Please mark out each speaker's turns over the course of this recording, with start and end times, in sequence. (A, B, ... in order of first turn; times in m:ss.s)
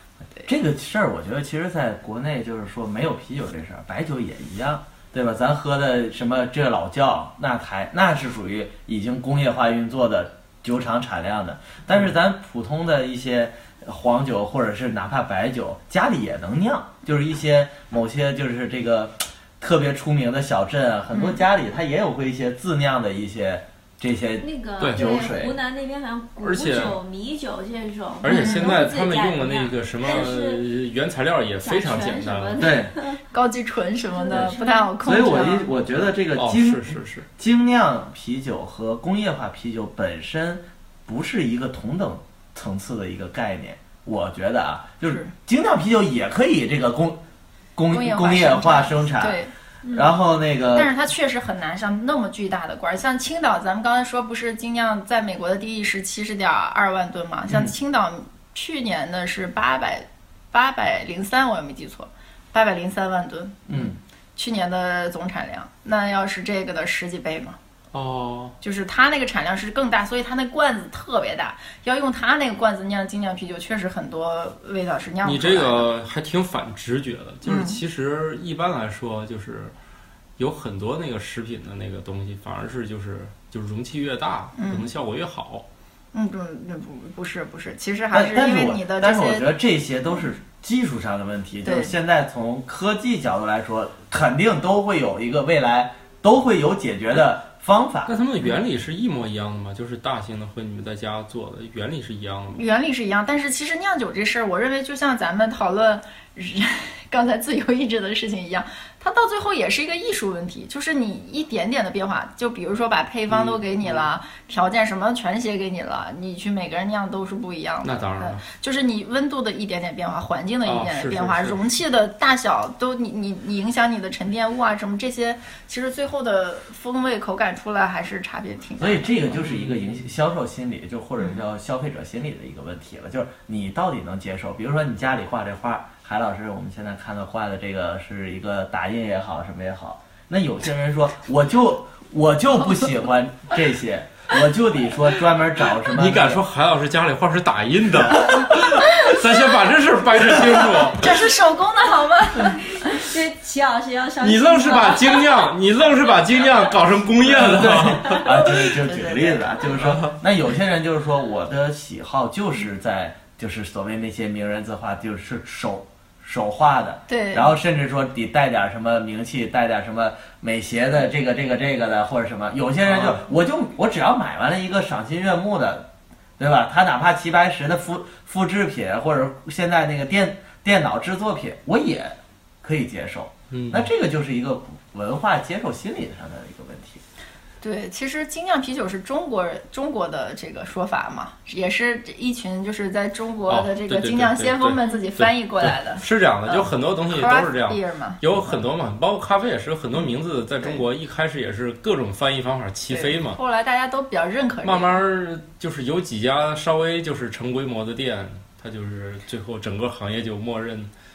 0:00.5-0:25.6 A
0:21.1-0:21.4 B
0:24.4-0:30.6 C
0:24.8-0:25.1 D
0:26.4-0:27.0 D
0:28.2-0:32.6 D
0:28.3-0:28.8 B
0:31.6-0:33.2 C
0:32.6-0:32.9 A
0:33.3-0:35.7 B
0:34.2-0:34.9 C
0:35.0-0:47.2 A
0:36.4-0:37.3 D
0:45.0-0:45.3 B
0:47.8-0:50.9 A
0:47.9-0:49.5 B
0:50.7-1:07.6 B
1:03.7-1:04.0 A
1:07.9-1:08.6 D
1:08.6-1:15.9 B
1:15.2-1:19.7 D
1:17.4-1:17.8 B
1:20.4-1:25.7 D
1:24.6-1:24.9 B
1:26.1-1:29.5 B
1:28.1-1:38.1 A
1:31.6-1:31.9 B
1:38.1-1:42.6 D
1:42.5-2:09.2 B
1:53.3-1:54.1 D
1:57.8-1:58.4 D
2:00.7-2:01.6 D
2:08.8-2:26.4 A
2:09.4-2:09.9 D
2:25.9-2:31.1 D
2:28.2-2:28.4 A
2:28.8-2:29.2 B
2:30.9-2:33.0 B
2:32.3-2:35.5 C
2:34.2-2:38.8 D
2:37.2-3:07.0 A
2:38.6-2:39.5 B
2:39.8-2:40.2 D
2:47.1-2:47.5 B
2:52.8-2:53.2 D
3:03.5-3:03.9 D
3:07.6-3:18.6 B
3:13.5-3:23.4 D
3:22.9-3:25.0 B
3:24.6-3:30.9 D